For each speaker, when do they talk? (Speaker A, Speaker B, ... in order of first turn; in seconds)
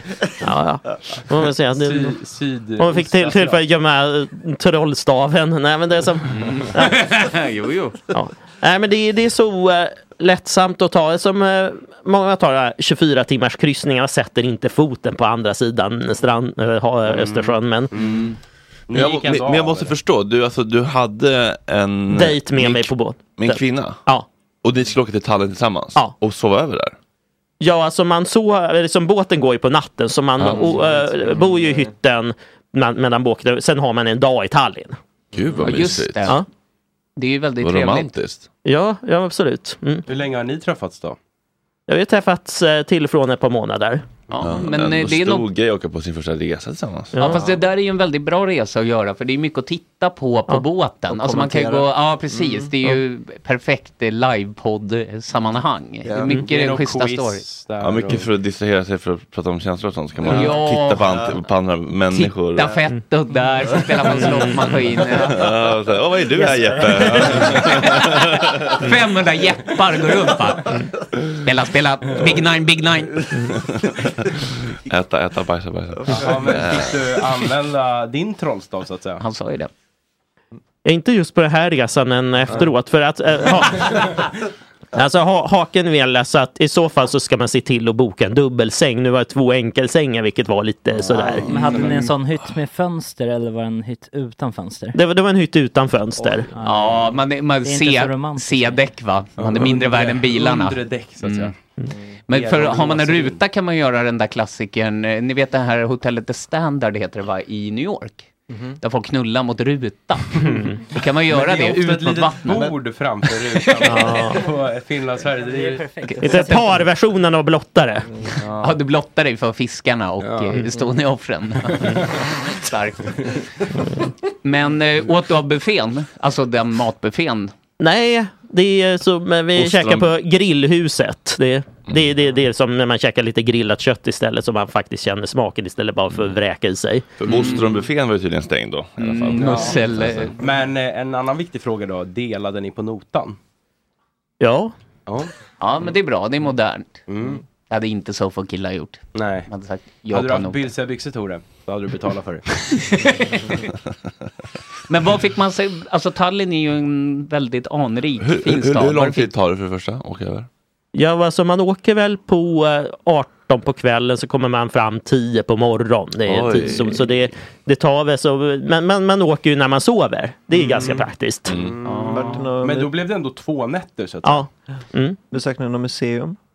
Speaker A: 0.4-2.2, 2.8-7.0, 8.1-17.9, 22.1-24.2, 27.6-35.0, 38.6-40.0, 41.9-44.0, 47.1-47.4, 64.2-64.5, 80.8-84.2, 84.9-91.5, 94.9-96.5, 113.9-114.4, 116.2-118.1, 127.8-137.1, 144.4-144.7, 160.9-171.6, 174.2-175.2
Speaker B: 1.7-3.6, 17.1-18.3, 18.9-19.9, 35.4-35.6, 40.0-41.2, 56.2-58.3, 76.1-79.2, 91.5-92.0, 99.4-101.5, 102.3-103.4, 111.3-115.9, 120.2-120.6, 121.7-122.3, 139.3-143.4, 147.1-147.4, 149.1-149.5, 150.1-152.6, 171.5-174.5
Speaker C: 6.3-8.0, 18.0-18.3, 35.6-36.4, 37.1-38.1, 44.3-45.5, 47.2-57.4, 60.2-61.2, 62.1-65.4, 68.7-70.8, 71.4-73.5, 79.2-79.7, 96.6-101.5, 102.3-108.3, 108.8-112.7, 116.0-116.8, 118.5-123.4, 124.4-127.5, 137.2-137.8, 139.0-140.3, 145.6-147.0, 147.7-150.7, 152.8-153.5, 154.9-159.3, 171.8-172.5
Speaker D: 18.9-24.0, 24.6-26.9, 30.4-30.7, 35.3-36.3, 37.6-38.5, 44.4-47.3, 57.8-62.8, 65.3-68.8, 73.5-76.9, 129.5-130.1, 137.2-139.7, 158.2-160.5, 166.3-167.1, 171.5-171.8
Speaker E: 51.1-52.7, 56.0-56.4, 91.1-91.5, 96.2-96.7, 108.5-108.8, 172.1-172.9, 175.3-176.4
Speaker F: 91.1-95.0, 96.5-96.9, 97.6-98.8